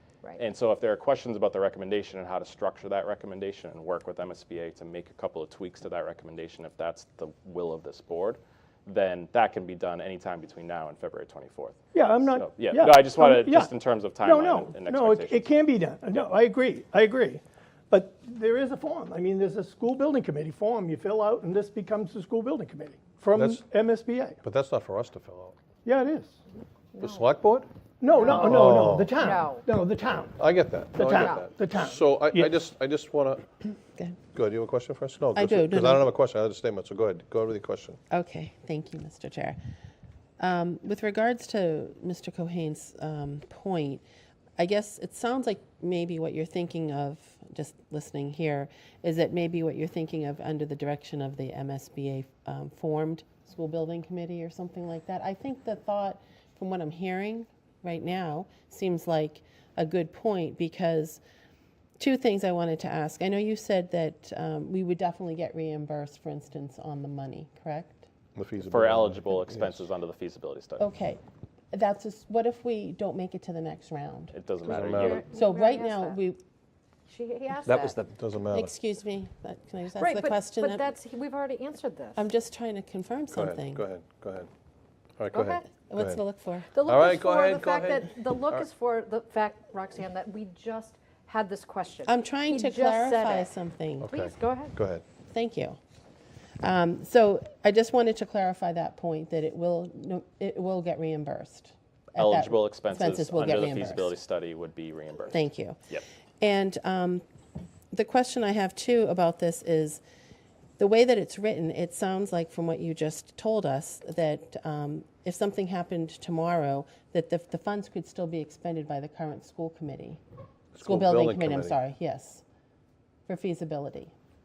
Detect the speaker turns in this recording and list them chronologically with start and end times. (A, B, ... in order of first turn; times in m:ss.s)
0:00.4-0:15.5 A
0:11.9-0:24.4 B
0:23.3-0:23.6 C
0:24.4-0:25.5 C
0:25.8-0:26.4 B
0:27.0-0:27.7 C
0:28.0-0:30.4 B
0:28.2-0:29.7 D
0:28.2-0:29.2 C
0:30.3-0:33.5 C
0:30.9-0:32.5 B
0:34.3-0:38.0 C
0:35.3-0:36.1 E
0:38.1-0:39.6 E
0:40.4-0:44.0 E
0:44.6-1:01.2 E
1:02.0-1:08.0 E
1:08.3-1:09.8 C
1:08.6-1:10.9 A
1:10.8-1:11.2 E
1:11.7-1:14.3 E
1:14.3-1:15.2 A
1:14.7-1:15.3 C
1:14.8-1:16.2 D
1:15.2-1:16.4 E
1:17.1-1:18.0 D
1:17.6-1:18.7 C
1:18.5-1:20.9 E
1:20.0-1:22.2 D
1:22.2-1:23.8 E
1:23.3-1:24.5 C
1:25.2-1:26.2 C
1:25.3-1:25.7 D
1:25.8-1:26.7 E
1:26.7-1:33.5 D
1:26.8-1:28.7 C
1:32.0-1:34.1 E
1:34.0-1:35.0 C
1:34.1-1:34.7 D
1:35.3-1:35.8 E
1:36.6-1:44.1 E
1:42.2-1:46.0 A
1:45.3-1:45.8 E
1:46.4-1:47.2 E
1:47.9-1:50.0 E
1:50.8-2:00.2 E
2:00.7-2:01.8 C
2:00.8-2:02.4 E
2:03.3-2:04.1 E